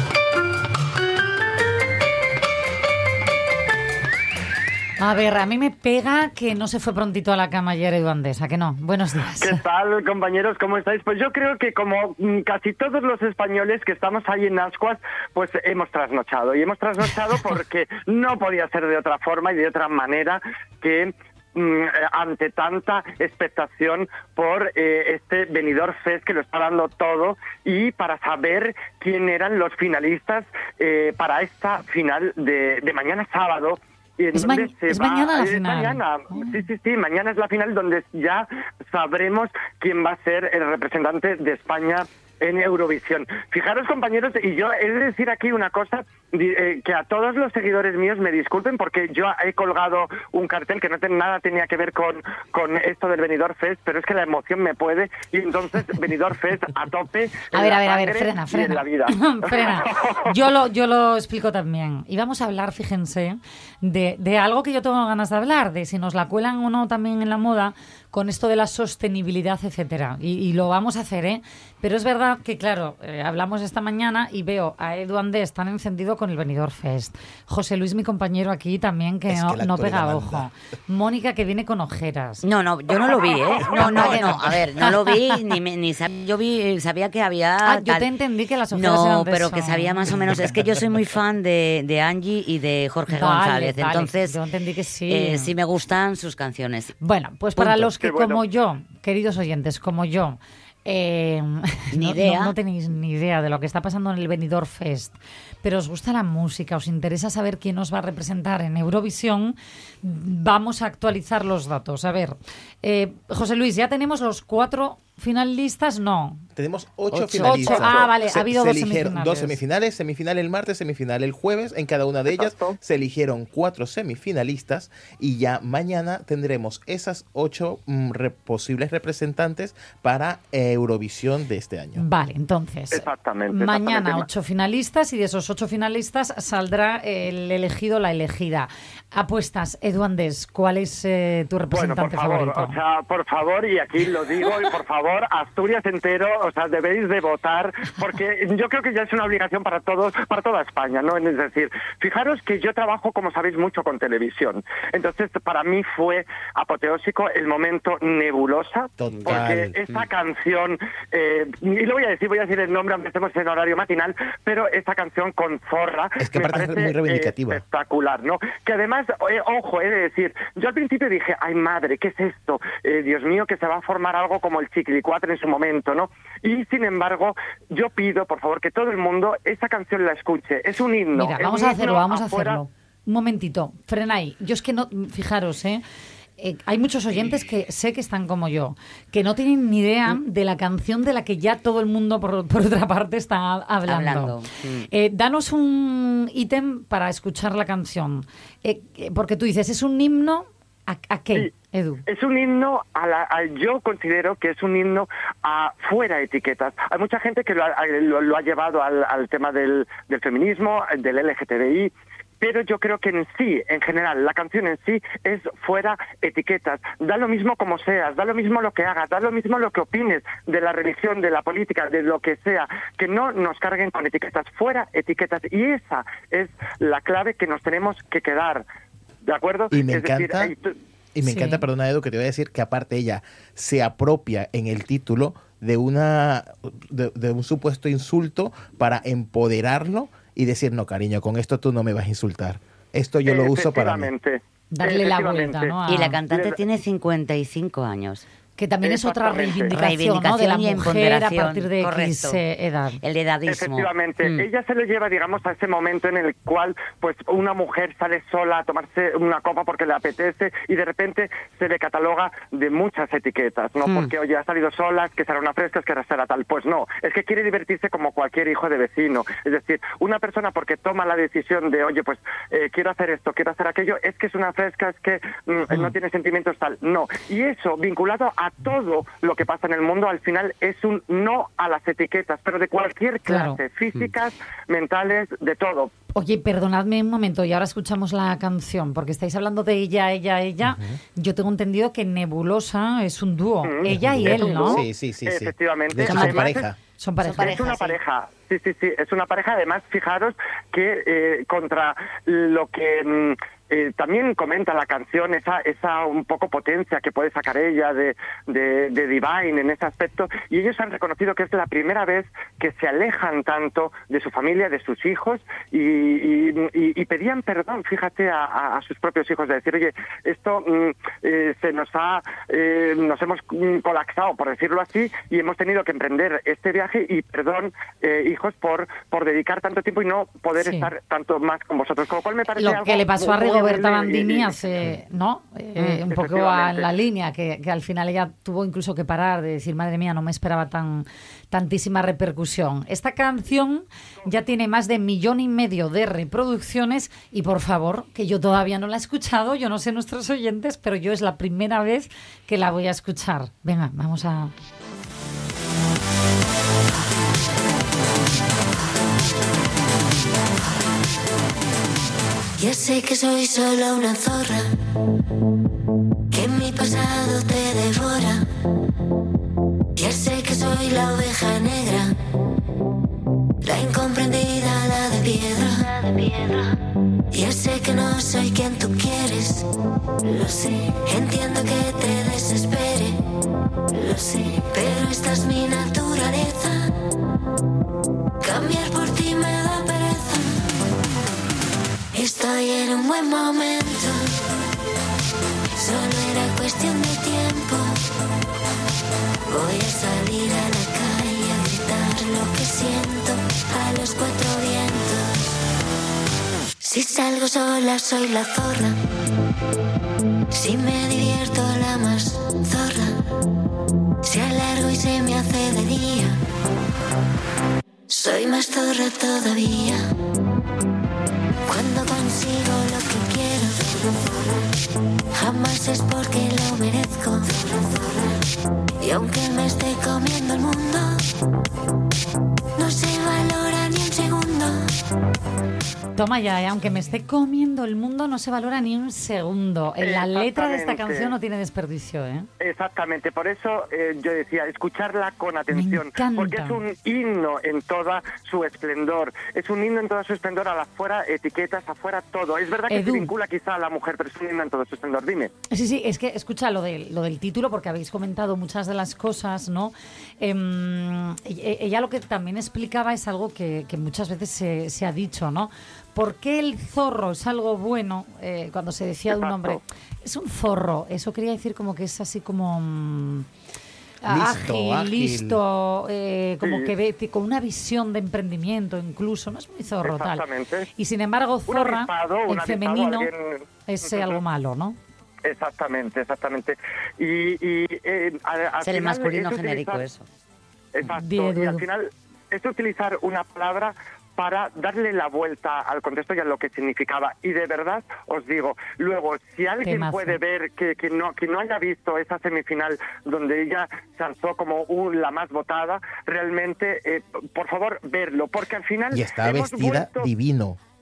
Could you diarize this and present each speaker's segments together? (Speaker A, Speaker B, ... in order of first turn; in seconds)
Speaker A: 5.0-9.6, 34.3-36.6, 57.5-82.4, 83.1-85.4, 87.6-90.2, 93.1-95.5, 97.0-116.4, 117.1-119.6, 131.9-142.8, 181.1-185.8, 186.4-202.0, 231.2-231.7, 244.7-246.2, 248.6-253.0, 283.3-283.6, 286.1-294.8, 296.0-298.0, 330.6-330.9, 332.6-354.5, 436.1-442.5, 445.7-446.8, 452.9-453.3, 455.7-473.5, 474.2-480.4, 481.0-483.3, 483.9-485.0, 491.1-491.9, 499.8-500.4
Speaker B: 9.4-60.2, 97.9-98.4, 117.3-118.1, 122.3-122.8, 132.9-134.3, 141.7-182.6, 202.1-228.7, 229.2-230.7, 243.2-246.6, 248.8-249.8, 253.4-285.9, 293.6-334.8, 336.0-336.9, 440.0-441.3, 442.6-455.5, 469.3-469.8, 476.6-476.9, 480.0-480.9, 481.7-484.4, 485.4-490.1, 490.9-510.3
Speaker C: 79.3-80.5, 116.5-132.0, 159.0-159.8, 166.2-167.6, 229.7-230.5, 231.1-244.1, 290.6-291.0, 293.9-296.8, 474.2-475.6, 509.1-510.8
Speaker D: 82.4-88.1, 88.7-94.4, 95.1-96.9, 97.5-97.9, 101.9-102.5, 193.8-194.9, 245.9-248.2, 249.7-252.4, 253.0-254.5, 263.8-264.1, 488.8-490.2
Speaker E: 362.6-364.7, 366.3-368.5, 369.9-372.1, 373.6-376.5, 377.3-379.6, 380.2-383.2, 383.9-386.9, 388.4-390.6, 392.1-394.3, 395.8-398.0, 399.5-405.6, 406.8-408.9, 410.5-413.1, 414.2-416.4, 418.1-420.1, 421.7-424.3, 425.3-428.4, 429.0-431.2, 432.8-434.9